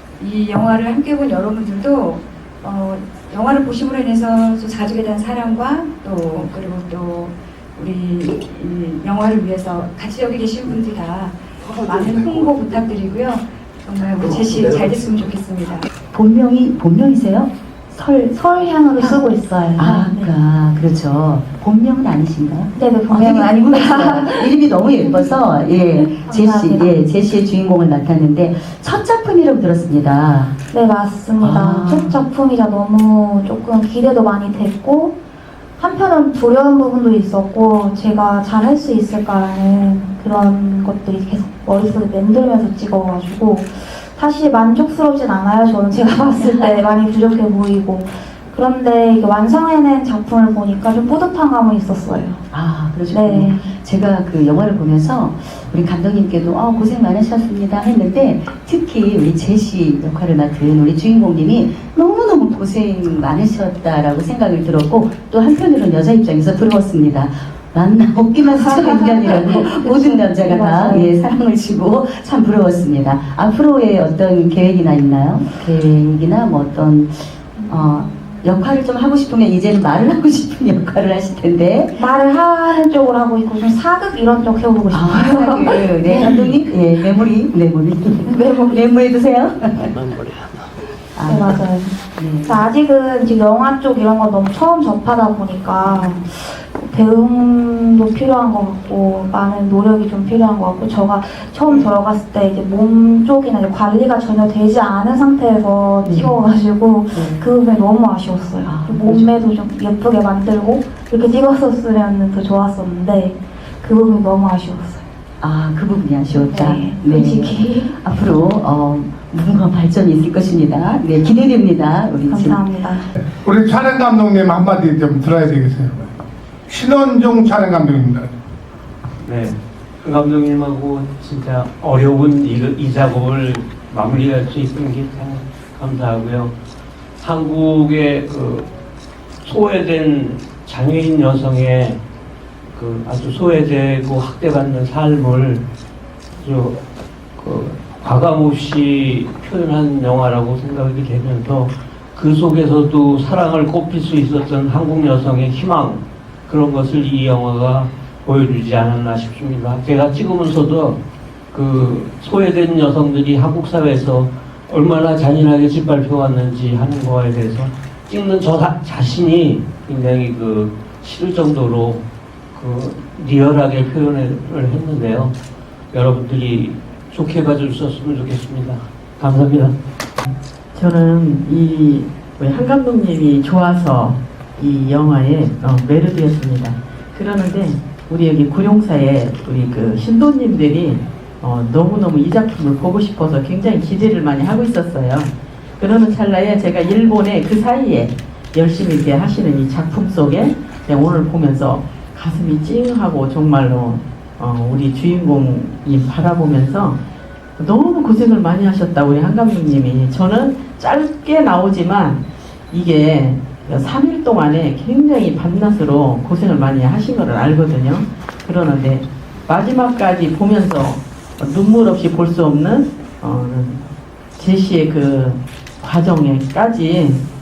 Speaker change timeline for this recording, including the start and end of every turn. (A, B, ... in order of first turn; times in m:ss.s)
0:00.2-0:15.9 A
0:16.1-0:30.5 B
0:18.4-0:20.3 C
0:22.8-0:27.0 C
0:30.7-0:35.2 C
0:31.4-0:32.2 B
0:35.8-0:52.4 C
0:52.5-1:22.0 B
0:53.1-0:53.7 C
1:08.5-1:11.1 C
1:22.0-1:26.6 C
1:24.9-1:29.9 B
1:28.3-1:28.8 C
1:31.2-1:31.6 B
1:31.3-1:55.0 C
1:32.2-1:32.6 B
1:35.8-1:36.2 B
1:46.0-1:46.4 B
1:47.1-1:47.4 B
1:48.6-1:49.3 B
1:55.4-2:02.6 B
1:56.3-1:58.0 C
2:02.3-2:03.1 C
2:03.3-2:06.1 D
2:06.7-2:08.3 D
2:10.1-2:16.5 E
2:17.2-2:18.6 E
2:19.5-2:22.0 E
2:22.8-2:25.6 E
2:26.4-2:26.8 E
2:27.4-2:41.0 E
2:41.5-2:52.0 E
2:52.6-2:55.3 E
2:55.9-2:59.7 E
3:00.3-3:27.0 F
3:27.6-3:47.2 F